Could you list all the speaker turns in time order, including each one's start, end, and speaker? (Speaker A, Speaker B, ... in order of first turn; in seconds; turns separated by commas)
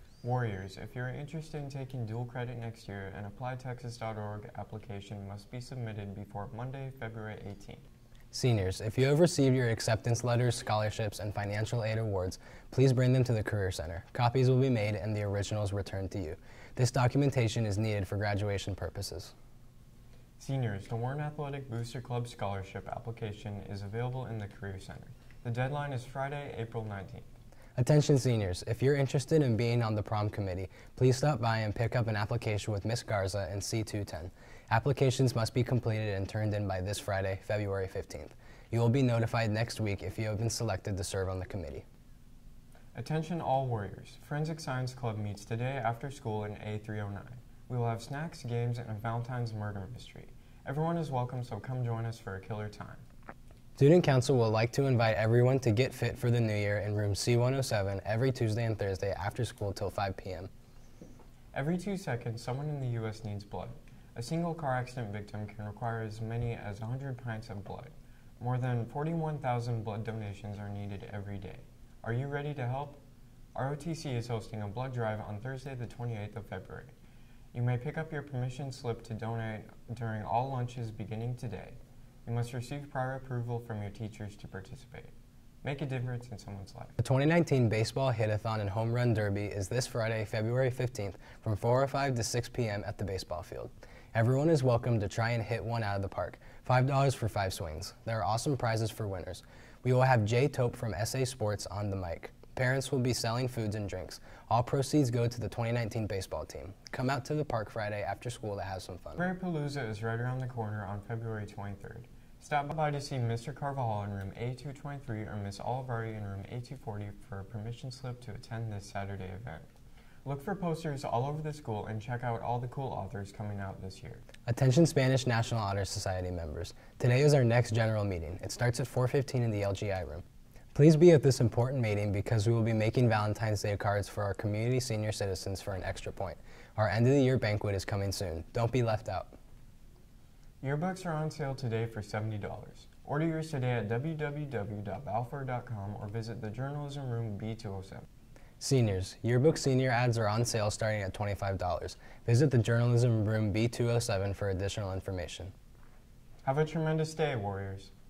Speaker A: 0.2-7.9, Speaker B: 8.3-19.3, Speaker A: 20.4-27.3, Speaker B: 27.8-41.9, Speaker A: 43.0-53.0, Speaker B: 53.8-60.5, Speaker A: 61.5-73.0, Speaker A: 73.5-76.9, Speaker A: 77.5-87.0, Speaker B: 87.0-109.3, Speaker A: 109.2-119.7, Speaker A: 120.2-124.2, Speaker B: 124.5-139.3, Speaker A: 140.6-148.1, Speaker B: 148.6-155.5, Speaker A: 156.4-157.9